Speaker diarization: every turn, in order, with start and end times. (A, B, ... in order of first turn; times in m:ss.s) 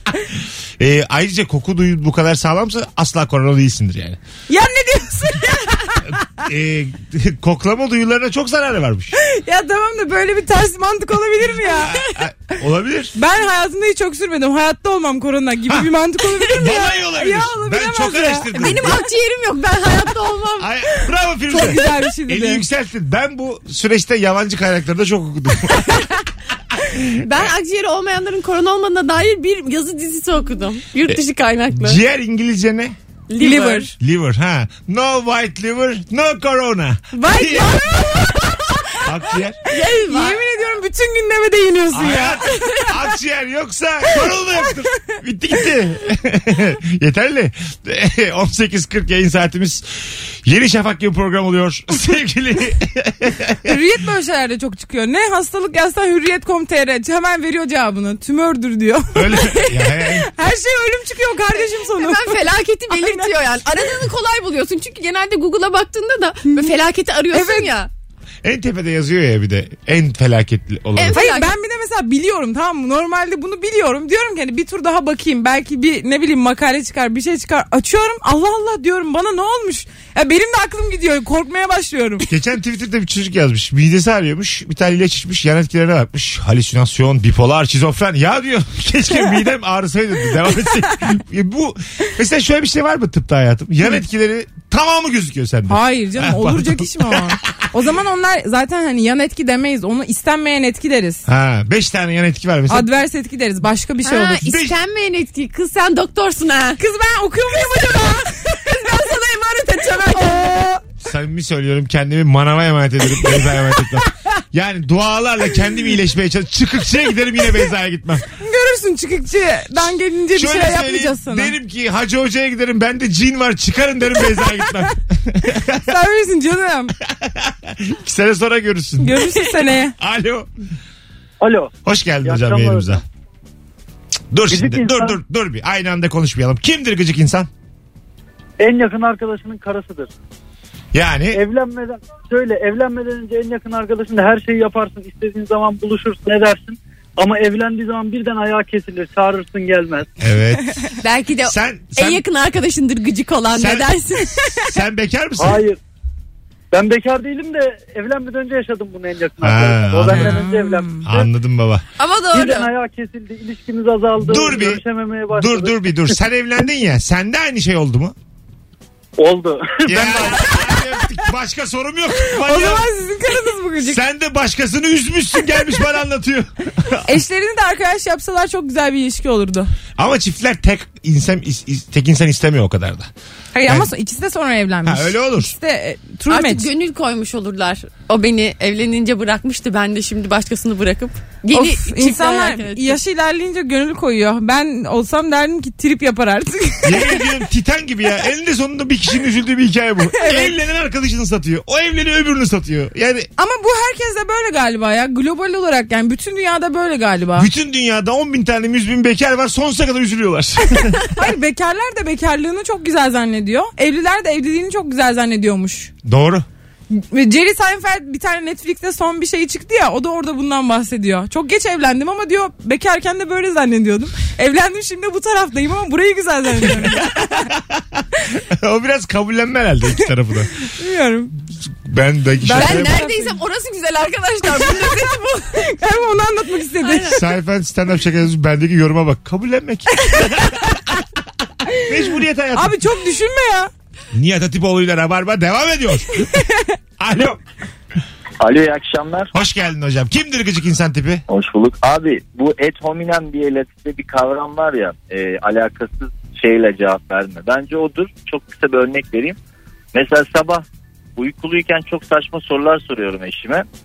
0:00.8-0:04.2 A
0:04.5-0:06.1 B
0:06.1-0:09.2 A
0:09.1-0:12.0 B
0:11.7-0:13.1 A
0:13.2-0:18.5 B
0:16.5-0:19.0 A
0:18.5-0:20.7 C
0:20.6-0:26.1 A
0:21.5-0:22.6 B
0:26.8-0:27.5 A
0:27.2-0:32.0 C
0:31.1-0:33.0 A
0:33.3-0:33.9 C
0:33.4-0:33.9 B
0:34.0-0:37.8 A
0:37.1-0:38.3 B
0:37.4-0:38.6 C
0:39.0-0:39.6 A
0:39.7-0:40.4 C
0:40.0-0:42.8 B
0:41.9-0:53.8 A
0:53.6-1:03.3 B
0:59.1-1:00.3 A
1:01.5-1:07.9 C
1:07.3-1:07.7 B
1:08.4-1:11.2 A
1:11.0-1:11.5 C
1:11.1-1:22.2 B
1:22.2-1:37.4 A
1:35.7-1:41.2 B
1:41.2-1:42.9 A
1:42.7-1:44.5 B
1:44.0-1:46.8 C
1:44.4-1:44.8 A
1:46.8-1:48.3 B
1:47.7-1:50.7 C
1:51.0-1:58.2 A
1:58.4-2:01.5 B
2:00.3-2:05.9 A
2:05.7-2:06.9 B
2:07.0-2:09.4 A
2:09.0-2:09.9 B
2:10.0-2:10.5 A
2:11.4-2:11.7 D
2:11.8-2:13.0 A
2:12.2-2:13.0 D
2:14.3-2:17.5 A
2:14.5-2:15.2 D
2:18.6-2:20.1 D
2:20.9-2:21.4 A
2:21.3-2:30.1 D
2:30.2-2:30.9 A
2:31.0-2:34.8 C
2:31.4-2:32.2 A
2:33.5-2:33.9 A
2:34.5-2:35.6 A
2:35.4-2:35.8 D
2:36.7-2:41.3 D
2:39.4-2:40.4 A
2:40.1-2:41.0 B
2:41.0-2:41.8 A
2:42.0-2:42.7 C
2:42.3-2:45.8 D
2:44.2-2:48.1 A
2:49.2-2:50.4 D
2:49.8-2:52.9 A
2:52.2-2:54.0 B
2:53.8-2:57.1 A
2:57.0-2:59.7 B
3:00.0-3:03.1 A
3:03.5-3:06.7 B
3:04.8-3:05.5 A
3:06.3-3:13.0 C
3:11.5-3:17.2 B
3:16.8-3:23.3 A
3:20.1-3:20.5 B
3:23.4-3:27.5 B
3:27.3-3:31.0 A
3:31.1-3:35.9 B
3:36.0-3:36.4 A
3:36.9-3:47.4 B
3:46.6-3:50.5 A
3:50.7-3:51.3 B
3:51.8-3:53.0 A
3:52.4-3:53.4 B
3:52.5-3:55.6 C
3:55.5-3:57.2 B
3:56.8-3:57.2 C
3:57.1-4:00.8 A
4:01.8-4:02.8 A
4:02.5-4:03.7 B
4:04.1-4:06.3 A
4:06.1-4:06.7 B
4:07.0-4:07.4 A
4:08.4-4:09.3 E
4:09.3-4:11.2 A
4:11.3-4:19.4 E
4:19.9-4:20.6 E
4:21.2-4:23.6 E